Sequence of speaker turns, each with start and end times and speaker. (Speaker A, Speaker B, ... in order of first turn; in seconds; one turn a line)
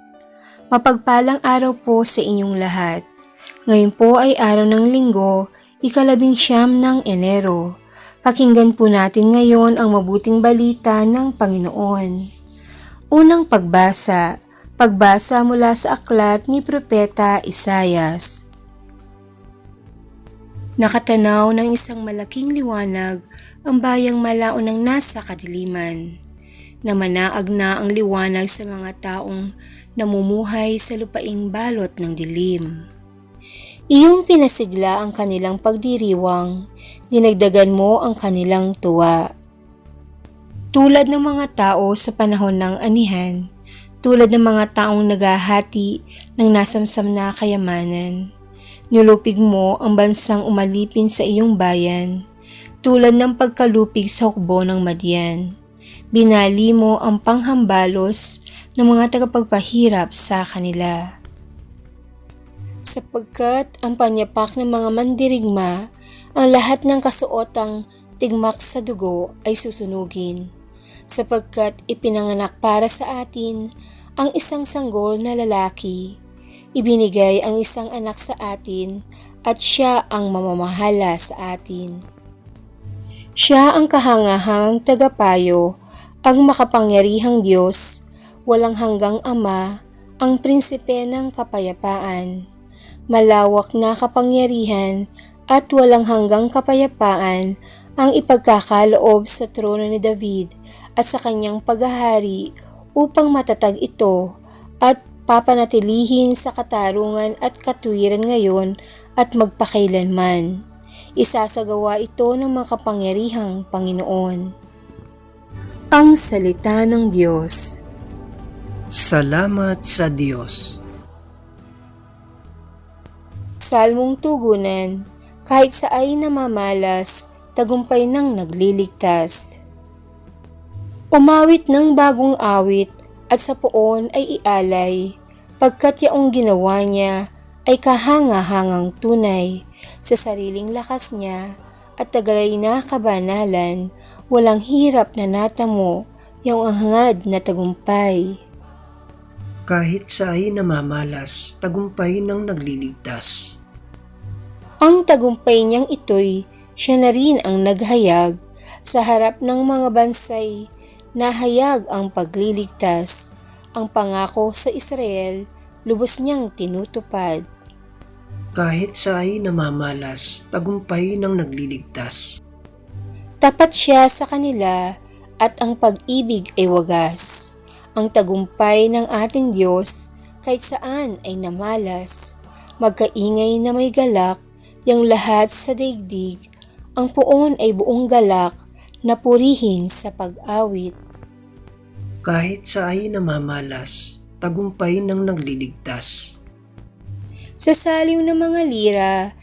Speaker A: 0.7-3.0
Speaker A: 3.7-7.6
Speaker A: 8.2-12.2
Speaker A: 13.1-14.2
Speaker A: 14.8-18.4
Speaker A: 20.8-26.1
Speaker A: 26.8-29.4
Speaker A: 30.0-32.7
Speaker A: 33.9-36.5
Speaker A: 37.1-39.2
Speaker A: 40.7-43.4
Speaker A: 44.0-48.2
Speaker A: 48.9-52.1
Speaker A: 52.8-55.4
Speaker A: 56.1-58.2
Speaker A: 58.8-61.0
Speaker A: 62.9-65.7
Speaker A: 66.4-70.4
Speaker A: 71.1-73.6
Speaker A: 74.2-76.1
Speaker A: 76.8-79.0
Speaker A: 79.5-82.0
Speaker A: 83.4-85.6
Speaker A: 86.2-87.8
Speaker A: 88.5-89.6
Speaker A: 90.2-92.3
Speaker A: 93.1-95.0
Speaker A: 95.5-97.5
Speaker A: 98.0-102.4
Speaker A: 103.0-104.2
Speaker A: 104.8-110.5
Speaker A: 111.2-114.4
Speaker A: 115.9-117.8
Speaker B: 119.0-120.8
Speaker A: 123.6-124.9
Speaker A: 125.5-129.4
Speaker A: 131.1-135.1
Speaker A: 135.6-137.1
Speaker A: 137.7-141.4
Speaker A: 142.0-148.3
Speaker B: 149.7-153.5
Speaker A: 154.8-158.3
Speaker A: 158.9-160.5
Speaker A: 161.2-163.2
Speaker A: 163.8-167.4
Speaker B: 168.6-172.2
Speaker A: 173.4-174.8
Speaker A: 175.4-177.3
Speaker A: 178.0-182.2
Speaker A: 182.8-186.4
Speaker A: 187.0-190.9
Speaker B: 192.3-196.1
Speaker A: 197.6-199.2